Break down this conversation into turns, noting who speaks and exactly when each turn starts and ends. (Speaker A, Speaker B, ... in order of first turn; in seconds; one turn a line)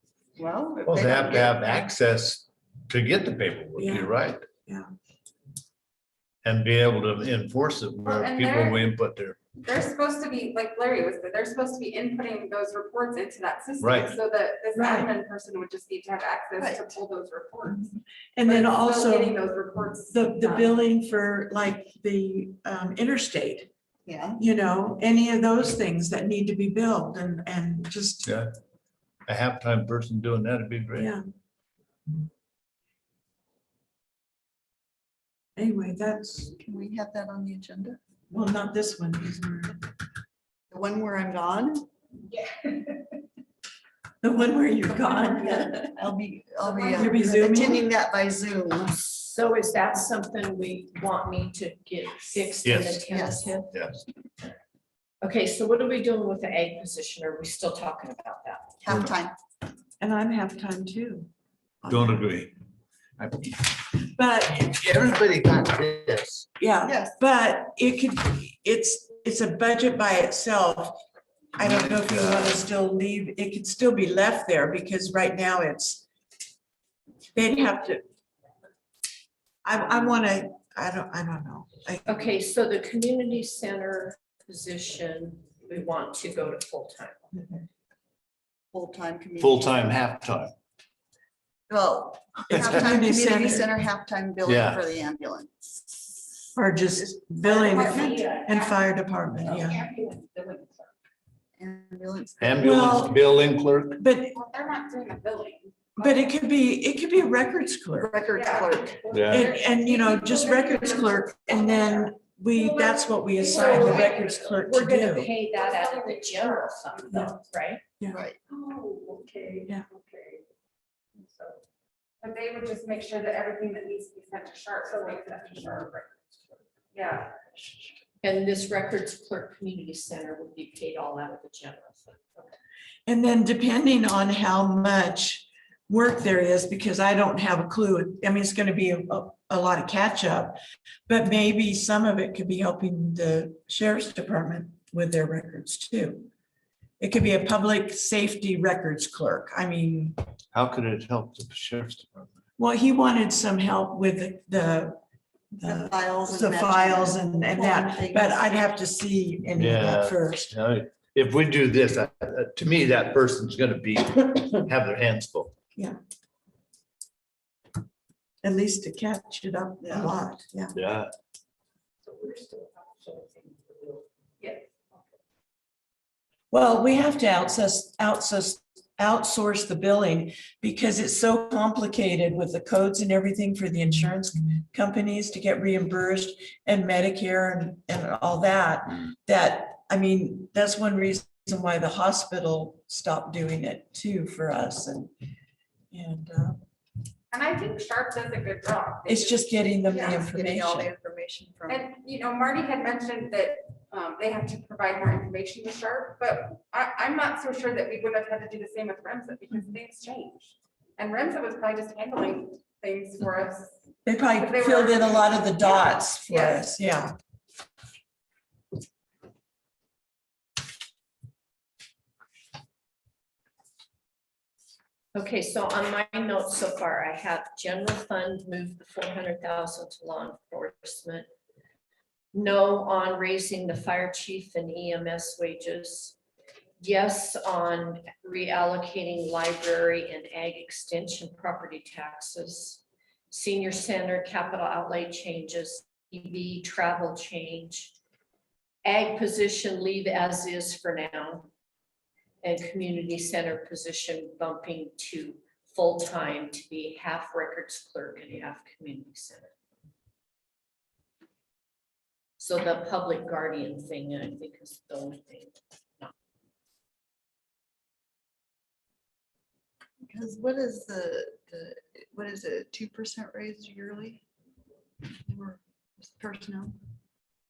Speaker A: 0.4-1.9
Speaker B: 0.8-4.5
Speaker C: 3.8-4.9
Speaker B: 6.4-9.4
Speaker D: 8.0-8.9
Speaker D: 9.6-20.7
Speaker B: 13.8-14.2
Speaker C: 14.8-15.1
Speaker A: 16.6-17.0
Speaker C: 18.4-19.4
Speaker C: 20.1-23.7
Speaker A: 24.1-24.4
Speaker C: 24.4-28.4
Speaker B: 29.3-31.1
Speaker C: 31.0-31.2
Speaker C: 35.6-36.5
Speaker A: 36.6-38.0
Speaker C: 38.3-39.8
Speaker A: 40.7-41.9
Speaker C: 44.2-46.0
Speaker A: 45.7-49.0
Speaker D: 46.7-47.2
Speaker C: 47.0-47.9
Speaker E: 48.9-53.7
Speaker B: 52.6-53.1
Speaker A: 53.1-53.5
Speaker B: 53.7-54.0
Speaker E: 55.2-58.7
Speaker A: 58.8-59.4
Speaker B: 58.9-59.1
Speaker C: 60.0-61.3
Speaker B: 61.9-62.5
Speaker B: 63.2-63.5
Speaker C: 64.2-64.7
Speaker B: 64.5-66.5
Speaker C: 66.6-71.0
Speaker A: 66.8-67.2
Speaker C: 71.6-76.1
Speaker B: 71.6-72.6
Speaker C: 77.3-78.0
Speaker C: 79.6-82.2
Speaker E: 82.1-87.6
Speaker A: 88.7-89.9
Speaker B: 89.4-90.5
Speaker A: 91.7-96.2
Speaker C: 92.5-93.7
Speaker B: 94.5-94.8
Speaker C: 96.5-99.8
Speaker D: 97.4-98.9
Speaker D: 99.5-100.9
Speaker A: 101.6-102.7
Speaker B: 102.4-104.0
Speaker C: 102.6-103.2
Speaker C: 104.0-104.4
Speaker D: 104.3-106.3
Speaker C: 106.0-108.2
Speaker A: 108.0-109.0
Speaker D: 108.3-114.3
Speaker B: 109.1-109.5
Speaker C: 109.3-115.3
Speaker E: 113.4-117.8
Speaker D: 115.5-117.4
Speaker A: 118.1-118.4
Speaker D: 118.5-120.4
Speaker D: 121.2-121.6
Speaker D: 122.2-126.2
Speaker D: 126.9-127.9
Speaker E: 128.2-132.5
Speaker C: 133.1-146.3
Speaker C: 147.0-150.2
Speaker B: 150.5-152.3
Speaker C: 152.6-155.0
Speaker C: 155.6-160.5
Speaker A: 155.6-158.4
Speaker B: 159.6-165.6
Speaker C: 168.4-170.8
Speaker A: 169.8-170.1
Speaker B: 170.7-171.1
Speaker E: 172.1-174.0
Speaker D: 174.4-174.8
Speaker C: 176.5-195.1
Speaker C: 195.9-196.6
Speaker D: 197.3-200.2
Speaker C: 199.1-200.9
Speaker A: 200.1-201.8
Speaker D: 201.7-213.8
Speaker C: 214.1-217.1
Speaker D: 214.3-216.7
Speaker E: 225.1-231.3
Speaker E: 232.3-236.2
Speaker E: 236.8-248.0
Speaker E: 248.8-251.5
Speaker E: 252.4-259.5
Speaker E: 262.4-266.1
Speaker A: 270.1-274.2
Speaker A: 275.2-276.8